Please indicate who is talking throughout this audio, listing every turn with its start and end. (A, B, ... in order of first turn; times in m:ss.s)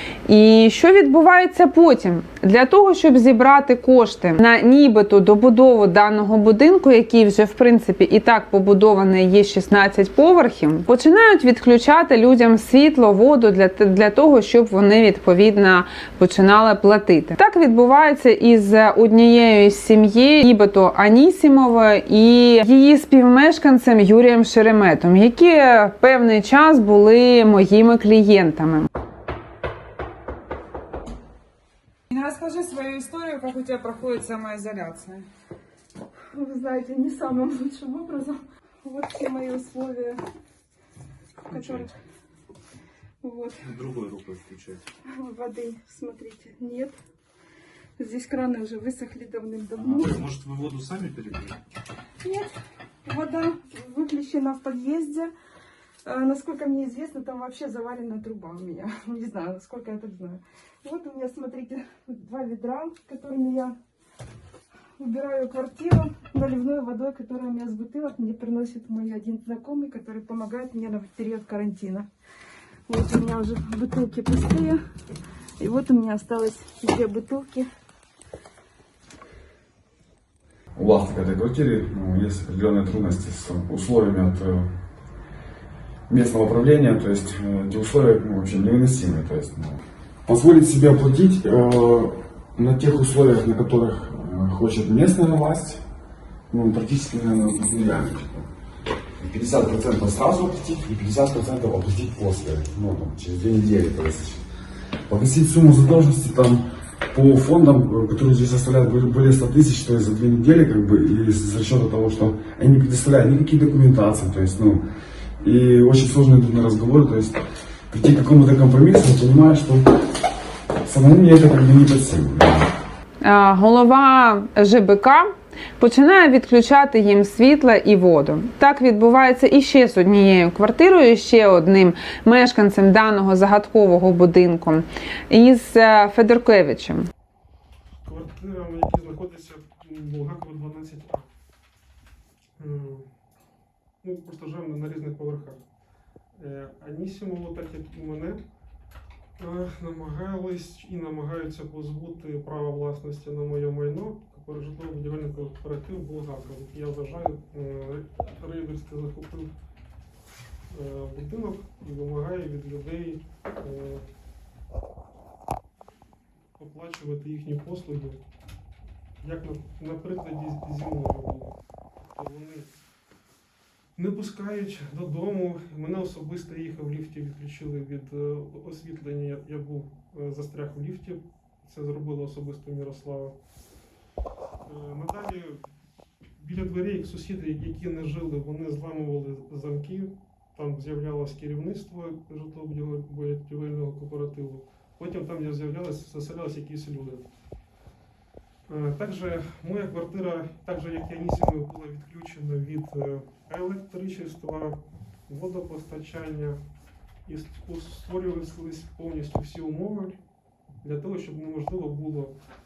0:00.3-0:28.9 A
0:32.1-0:35.3 B
0:36.3-0:40.2 C
0:41.5-0:41.9 D
0:41.5-0:41.9 C
0:43.2-0:43.6 C
0:43.6-0:44.8 D
0:45.2-0:46.9 C
0:48.0-0:50.3 C
0:49.8-0:51.6 D
0:52.2-0:52.5 C
0:53.0-0:55.3 C
0:56.0-1:03.8 C
1:05.0-1:12.1 C
1:12.9-1:14.8 C
1:15.6-1:17.7 C
1:20.8-1:24.7 E
1:26.1-1:35.8 E
1:36.5-1:38.5 E
1:39.2-1:44.4 E
1:45.1-1:54.8 E
1:55.4-1:59.9 E
2:00.8-2:02.7 E
2:03.2-2:17.1 A
2:18.0-2:21.3 F
2:22.6-2:23.1 F
2:24.0-2:25.6 F
2:26.4-2:28.4 F
2:29.4-2:39.5 F
2:40.7-2:44.0 F
2:46.6-2:48.2 F
2:49.2-2:51.6 F
2:52.1-2:52.7 F
2:54.0-3:03.4 F
3:04.6-3:05.6 F
3:06.4-3:17.3 F
3:18.7-3:26.6 F
3:27.3-3:30.2 F
3:30.8-3:32.4 F